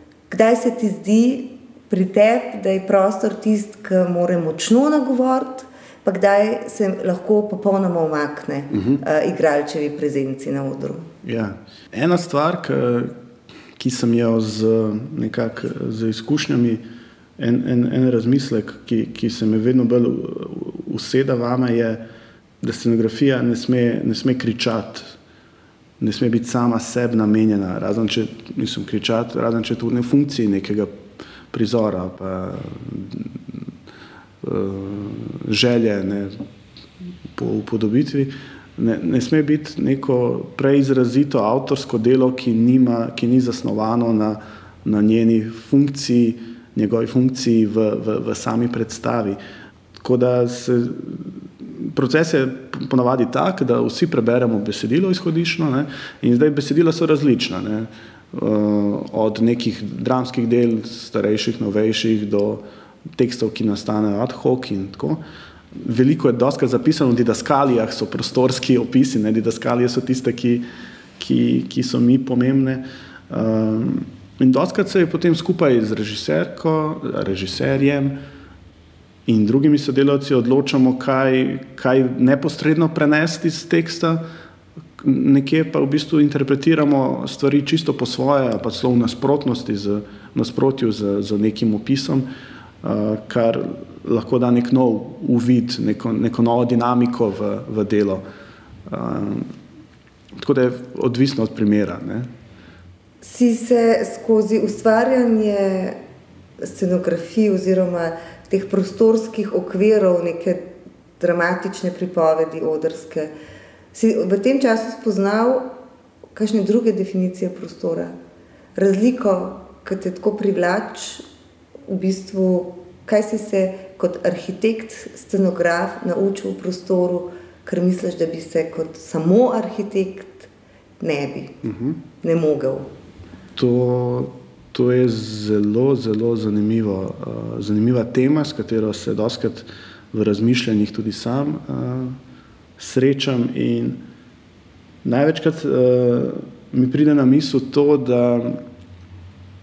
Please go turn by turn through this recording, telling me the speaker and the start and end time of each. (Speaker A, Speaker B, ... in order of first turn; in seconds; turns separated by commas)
Speaker A: 0.3-11.1, Speaker B: 8.7-9.0, Speaker B: 11.2-13.1, Speaker B: 13.8-16.8, Speaker B: 17.4-22.0, Speaker B: 22.6-25.1, Speaker B: 26.0-30.9, Speaker B: 31.5-33.7, Speaker B: 34.4-36.3, Speaker B: 37.3-49.4, Speaker B: 49.9-65.2, Speaker B: 65.7-70.6, Speaker B: 71.2-78.2, Speaker B: 79.3-84.2, Speaker B: 85.0-92.3, Speaker B: 92.8-98.2, Speaker B: 98.9-99.5, Speaker B: 100.3-102.3, Speaker A: 103.2-106.0, Speaker A: 106.6-110.7, Speaker A: 111.2-113.3, Speaker A: 113.9-115.7, Speaker A: 116.3-118.1, Speaker A: 118.8-121.2, Speaker A: 121.9-131.6, Speaker B: 131.6-132.0, Speaker A: 132.2-132.9, Speaker B: 133.6-142.2, Speaker B: 142.8-144.0, Speaker B: 145.0-148.6